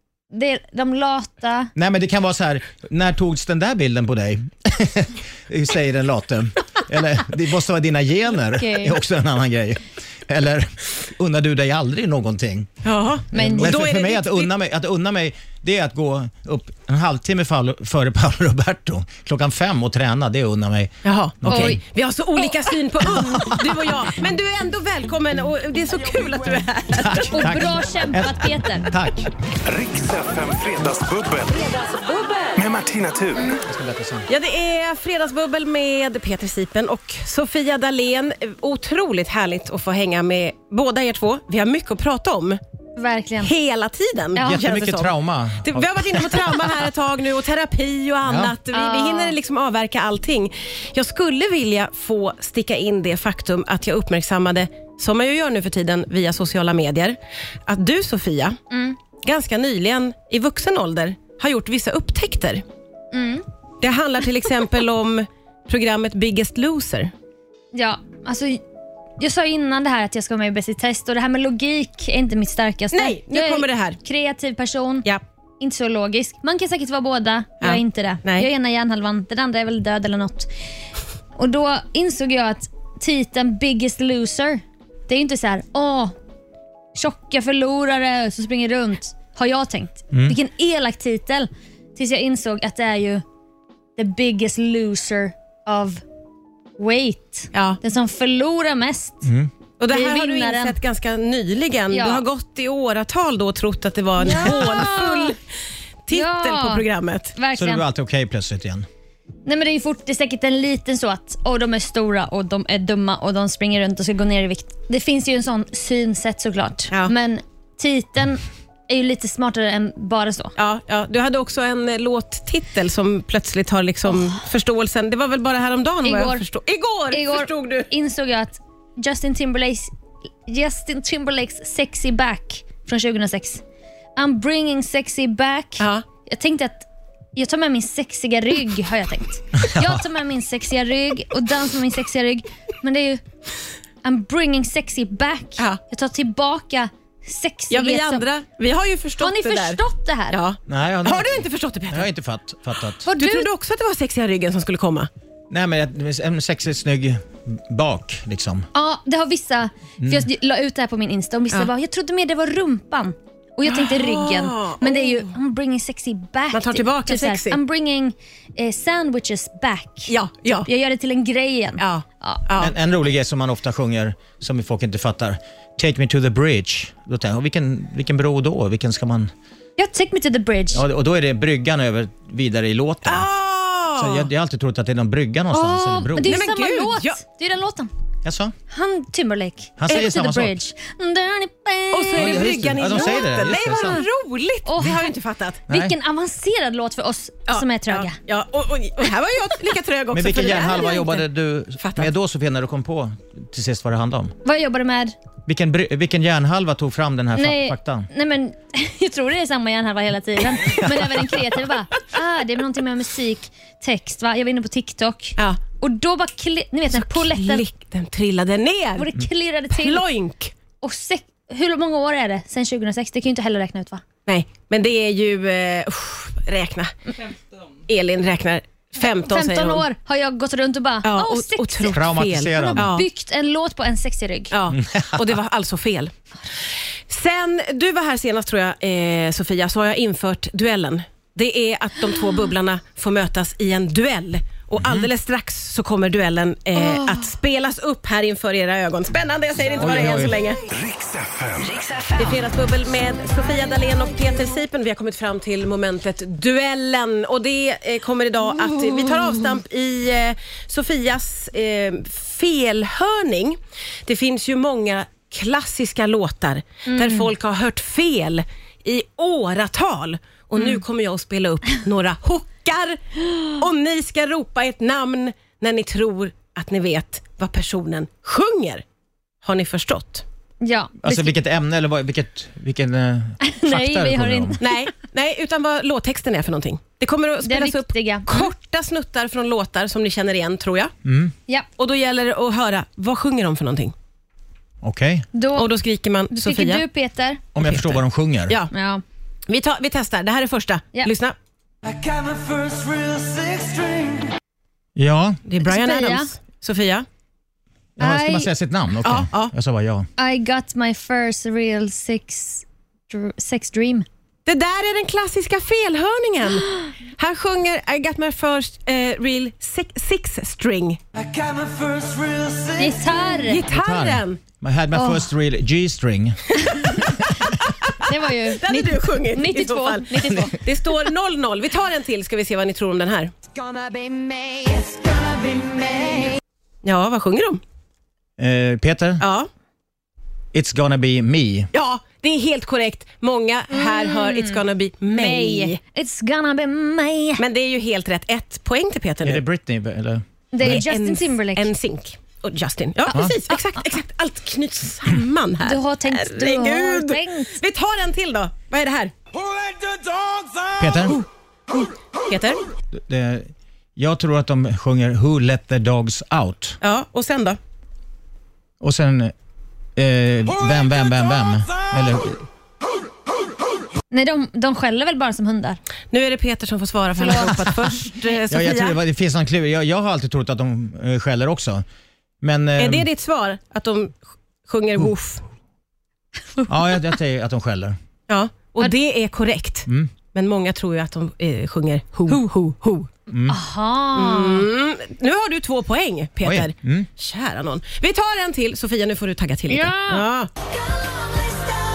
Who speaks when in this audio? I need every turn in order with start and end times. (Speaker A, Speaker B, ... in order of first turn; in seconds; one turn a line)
Speaker A: 0.3-1.7
Speaker B: 1.8-12.7
Speaker A: 8.6-9.0
Speaker C: 12.8-14.5
Speaker A: 13.3-13.7
Speaker B: 13.3-21.8
Speaker C: 21.0-27.6
Speaker A: 21.5-21.8
Speaker B: 23.2-23.6
Speaker B: 27.0-29.3
Speaker A: 27.3-28.9
Speaker D: 29.6-33.6
Speaker B: 33.5-34.3
Speaker C: 34.3-42.6
Speaker A: 43.0-43.5
Speaker C: 43.4-58.6
Speaker A: 44.4-44.6
Speaker B: 44.4-46.7
Speaker B: 48.2-48.5
Speaker A: 48.7-49.4
Speaker A: 58.7-59.0
Speaker C: 59.2-62.6
Speaker A: 63.1-63.5
Speaker C: 63.8-67.1
Speaker A: 67.7-68.6
Speaker A: 69.2-75.1
Speaker C: 72.9-74.0
Speaker A: 75.6-80.5
Speaker C: 77.6-78.5
Speaker A: 81.4-86.2
Speaker A: 87.0-93.2
Speaker A: 94.0-96.0
Speaker A: 96.8-99.3
Speaker C: 97.5-97.8
Speaker B: 99.2-99.5
Speaker C: 99.8-105.4
Speaker A: 99.9-100.8
Speaker A: 101.9-102.2
Speaker A: 104.2-105.3
Speaker C: 106.1-107.4
Speaker A: 106.1-106.8
Speaker A: 107.4-107.8
Speaker B: 107.6-108.9
Speaker A: 109.5-120.5
Speaker C: 120.6-127.9
Speaker A: 124.1-124.4
Speaker A: 126.0-126.4
Speaker A: 127.1-129.9
Speaker A: 130.5-133.6
Speaker A: 134.2-143.2
Speaker C: 135.8-136.1
Speaker B: 139.6-140.0
Speaker A: 144.0-148.2
Speaker C: 147.7-149.8
Speaker A: 149.2-150.4
Speaker C: 150.3-152.1
Speaker B: 150.7-153.1
Speaker A: 153.1-153.5
Speaker C: 153.2-155.1
Speaker B: 155.5-158.7
Speaker A: 158.7-170.1
Speaker B: 160.0-160.3
Speaker C: 163.7-165.3
Speaker C: 166.5-167.6
Speaker C: 170.1-170.7
Speaker A: 170.7-172.4
Speaker C: 171.8-172.7
Speaker B: 172.6-179.3
Speaker A: 179.8-180.8
Speaker B: 180.7-183.3
Speaker C: 183.1-184.3
Speaker B: 184.0-186.4
Speaker A: 185.5-187.9
Speaker C: 186.2-187.2
Speaker B: 188.2-188.6
Speaker A: 188.7-193.2
Speaker B: 189.8-190.6
Speaker C: 191.9-195.6
Speaker B: 192.2-194.0
Speaker A: 194.7-195.1
Speaker B: 195.7-195.9
Speaker A: 195.7-198.2
Speaker C: 197.5-201.2
Speaker B: 200.1-204.3
Speaker C: 201.8-202.1
Speaker A: 204.4-205.1
Speaker B: 205.5-208.1
Speaker A: 207.3-217.7
Speaker B: 210.6-211.3
Speaker C: 216.9-219.1
Speaker A: 219.0-220.1
Speaker C: 219.7-220.5
Speaker A: 220.8-224.0
Speaker C: 224.3-226.9
Speaker C: 227.9-229.8
Speaker A: 229.0-234.5
Speaker C: 231.0-233.1
Speaker B: 231.9-232.9
Speaker C: 234.5-236.1
Speaker B: 234.7-235.3
Speaker C: 237.1-250.6
Speaker B: 244.8-245.1
Speaker A: 246.8-247.3
Speaker B: 249.8-250.4
Speaker D: 250.7-252.3
Speaker C: 252.2-278.8
Speaker A: 266.9-267.3
Speaker C: 279.4-280.2
Speaker A: 280.6-281.3
Speaker B: 281.0-284.6
Speaker A: 283.4-284.8
Speaker C: 284.6-290.9
Speaker A: 287.4-288.5
Speaker B: 291.0-291.4
Speaker C: 291.8-293.9
Speaker B: 294.8-295.3
Speaker A: 295.3-295.7
Speaker C: 295.6-296.8
Speaker A: 296.3-297.4
Speaker B: 297.6-298.6
Speaker C: 297.6-298.7
Speaker A: 298.7-299.0
Speaker C: 299.5-301.4
Speaker D: 301.8-304.3
Speaker B: 305.0-305.4
Speaker C: 305.5-307.1
Speaker A: 305.6-306.3
Speaker B: 308.0-310.1
Speaker A: 308.0-308.5
Speaker C: 309.0-309.5
Speaker A: 310.2-314.1
Speaker C: 314.5-321.0
Speaker D: 321.1-323.4
Speaker A: 322.8-323.6
Speaker C: 323.5-324.4
Speaker B: 323.7-327.1
Speaker A: 324.9-325.3
Speaker A: 326.7-327.2
Speaker C: 327.6-333.3
Speaker A: 328.0-330.6
Speaker D: 333.6-336.3
Speaker C: 336.8-337.6
Speaker B: 338.4-339.2
Speaker C: 339.2-339.5
Speaker B: 340.5-341.7
Speaker C: 341.7-345.8
Speaker A: 343.7-347.4
Speaker C: 347.4-349.4
Speaker B: 349.2-350.8
Speaker A: 350.5-351.7
Speaker C: 350.6-359.1
Speaker A: 353.1-353.6
Speaker A: 355.6-357.6
Speaker D: 359.3-361.2
Speaker B: 360.8-361.2
Speaker C: 361.7-362.6
Speaker B: 362.9-366.8
Speaker C: 366.8-367.6
Speaker B: 368.8-369.3
Speaker B: 370.0-372.4
Speaker D: 370.6-371.9
Speaker A: 374.1-375.8
Speaker C: 376.1-379.0
Speaker A: 377.2-378.2
Speaker B: 378.5-381.8
Speaker B: 382.4-383.1
Speaker C: 382.8-385.4
Speaker B: 386.7-388.0
Speaker C: 388.3-393.1
Speaker B: 389.9-390.1
Speaker B: 393.3-393.6
Speaker A: 393.5-394.7
Speaker C: 394.1-400.5
Speaker B: 396.4-397.1
Speaker A: 399.7-400.3